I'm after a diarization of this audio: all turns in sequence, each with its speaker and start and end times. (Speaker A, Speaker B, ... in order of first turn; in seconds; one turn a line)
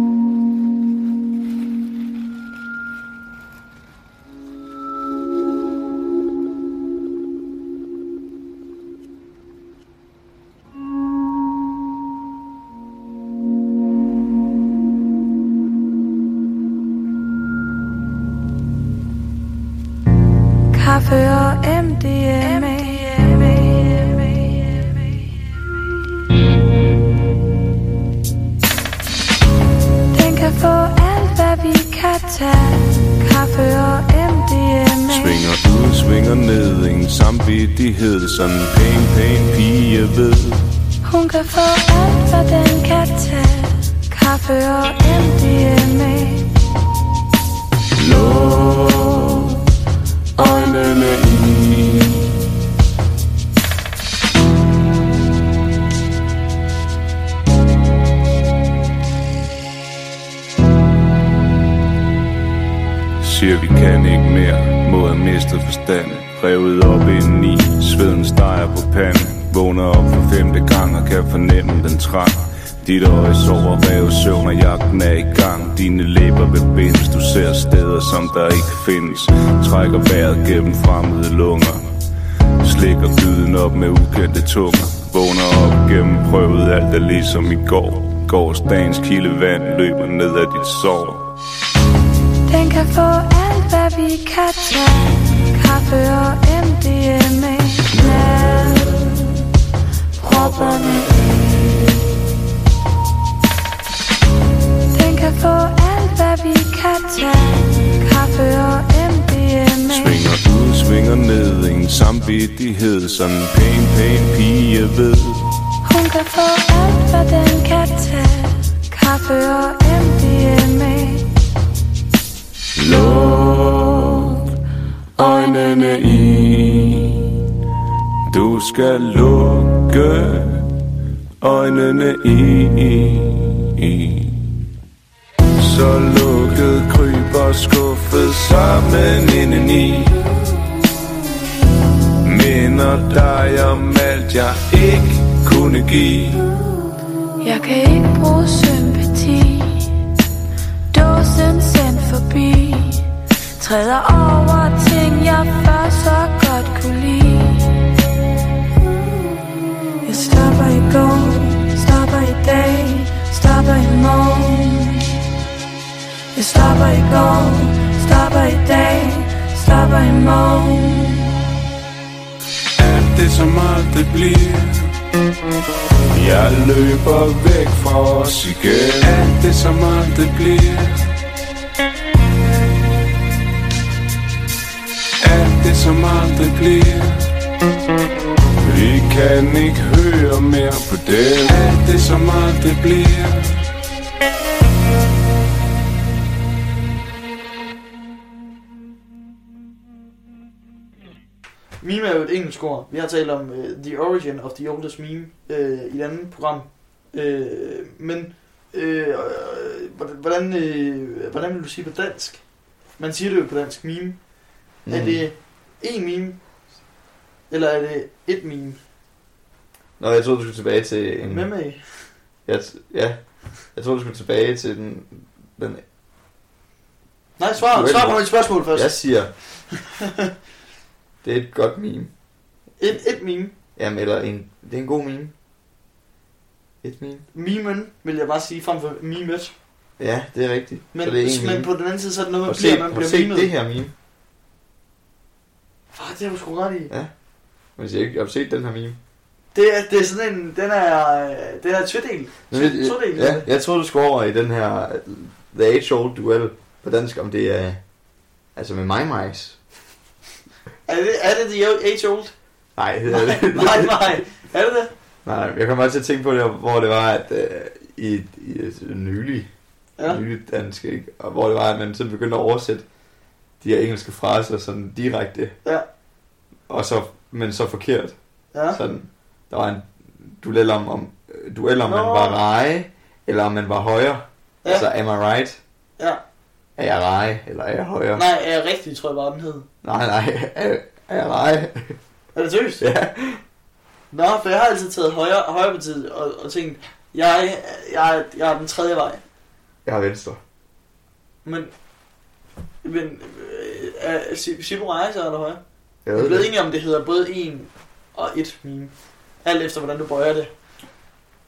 Speaker A: 20.7-24.9
Speaker A: 30.1-35.5
Speaker B: 35.0-40.7
Speaker A: 41.0-46.5
Speaker B: 47.9-49.6
Speaker B: 50.4-52.4
Speaker A: 50.4-51.0
Speaker B: 63.2-81.9
Speaker B: 82.6-91.3
Speaker A: 92.5-99.2
Speaker B: 98.0-98.8
Speaker A: 100.2-101.3
Speaker B: 100.2-101.7
Speaker A: 104.9-110.3
Speaker B: 109.8-115.5
Speaker A: 115.8-121.3
Speaker B: 122.8-124.4
Speaker B: 125.2-127.4
Speaker A: 125.2-126.1
Speaker B: 128.3-130.7
Speaker B: 131.4-134.5
Speaker B: 135.6-140.3
Speaker B: 142.2-146.5
Speaker A: 147.4-149.9
Speaker A: 150.9-153.1
Speaker A: 153.6-157.8
Speaker A: 160.0-165.2
Speaker A: 166.3-171.3
Speaker B: 172.8-174.9
Speaker B: 176.1-181.1
Speaker B: 185.2-187.3
Speaker B: 188.6-193.6
Speaker C: 201.8-212.4
Speaker C: 213.0-214.2
Speaker D: 214.8-215.2
Speaker C: 214.9-216.4
Speaker C: 217.5-218.8
Speaker D: 220.0-221.5
Speaker C: 221.2-221.8
Speaker D: 222.4-223.2
Speaker D: 223.7-225.8
Speaker C: 227.4-228.9
Speaker D: 227.6-229.3
Speaker C: 229.7-230.3
Speaker D: 231.2-232.1
Speaker C: 232.8-233.5
Speaker D: 233.8-235.3
Speaker D: 236.8-237.2
Speaker C: 237.3-239.5
Speaker D: 240.0-241.7
Speaker C: 240.9-243.5
Speaker D: 242.4-243.9
Speaker C: 245.9-246.9
Speaker D: 247.8-249.0
Speaker C: 249.5-253.5
Speaker D: 252.5-257.8
Speaker D: 258.6-259.6
Speaker C: 260.9-262.3
Speaker D: 262.8-264.2
Speaker C: 263.1-264.9
Speaker D: 265.2-269.5
Speaker D: 270.0-272.8
Speaker D: 273.6-275.5
Speaker D: 276.7-278.1
Speaker C: 278.5-278.8
Speaker D: 278.7-285.6
Speaker C: 281.8-282.4
Speaker D: 286.8-288.2
Speaker C: 288.1-289.7
Speaker D: 289.8-292.0
Speaker C: 292.3-292.8
Speaker D: 292.8-293.4
Speaker C: 294.1-299.2
Speaker D: 299.8-300.4
Speaker C: 301.4-301.7
Speaker C: 302.8-305.6
Speaker D: 306.0-306.5
Speaker C: 306.1-310.5